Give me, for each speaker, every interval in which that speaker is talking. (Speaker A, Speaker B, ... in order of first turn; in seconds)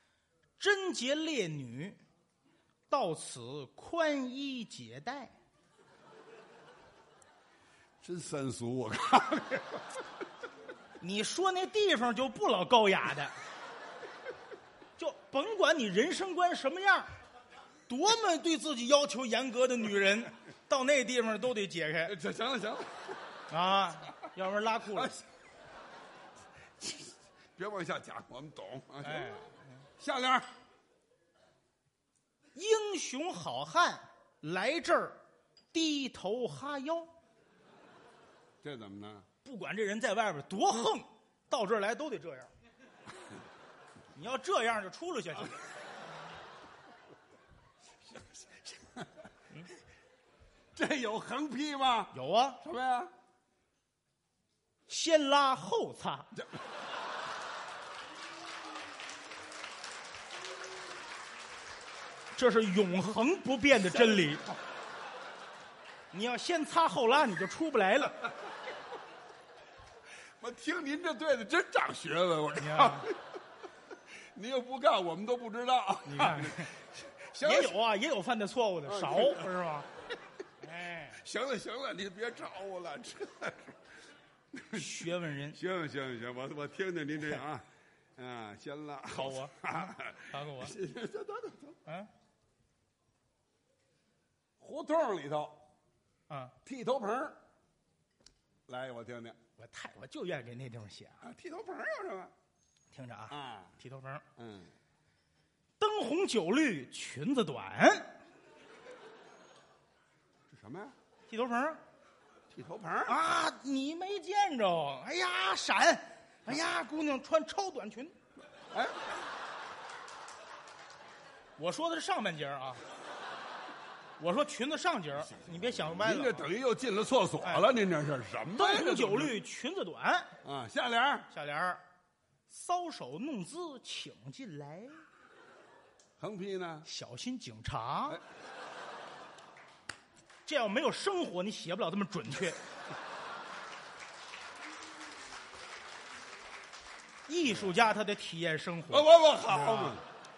Speaker A: 0.6-2.0, 2.9-5.4, 11.0-13.3, 15.0-17.1, 17.9-22.2, 23.5-25.1, 29.0-29.8, 32.5-35.2, 35.7-37.1, 39.4-42.5, 44.1-45.6, 52.1-52.6, 54.9-56.3, 62.3-64.4, 66.1-68.3, 72.6-73.1, 76.1-76.7, 77.4-79.9, 80.6-81.2, 84.7-85.6, 89.2-90.8, 91.9-92.1, 96.3-96.5, 99.6-101.3, 102.9-104.2, 105.8-108.2, 111.3-111.8, 113.0-118.1, 121.6-122.8, 124.2-126.5, 127.4-127.7, 128.5-130.3, 131.3-131.8, 132.5-135.0, 136.8-138.2, 140.4-142.6, 147.3-150.0
Speaker B: 8.0-10.0, 22.1-23.2, 24.9-25.3, 26.8-30.5, 38.6-39.3, 48.1-49.2, 50.8-53.1, 63.7-64.6, 70.4-73.2, 74.3-77.8, 78.9-79.5, 81.1-83.8, 84.5-91.8, 94.6-95.6, 96.7-97.4, 98.7-99.4, 101.2-102.3, 103.3-103.8, 104.4-104.8, 110.5-111.0, 112.5-113.2, 118.7-119.2, 125.2-129.4, 130.4-131.3, 136.2-136.9, 147.4-147.8, 148.9-150.1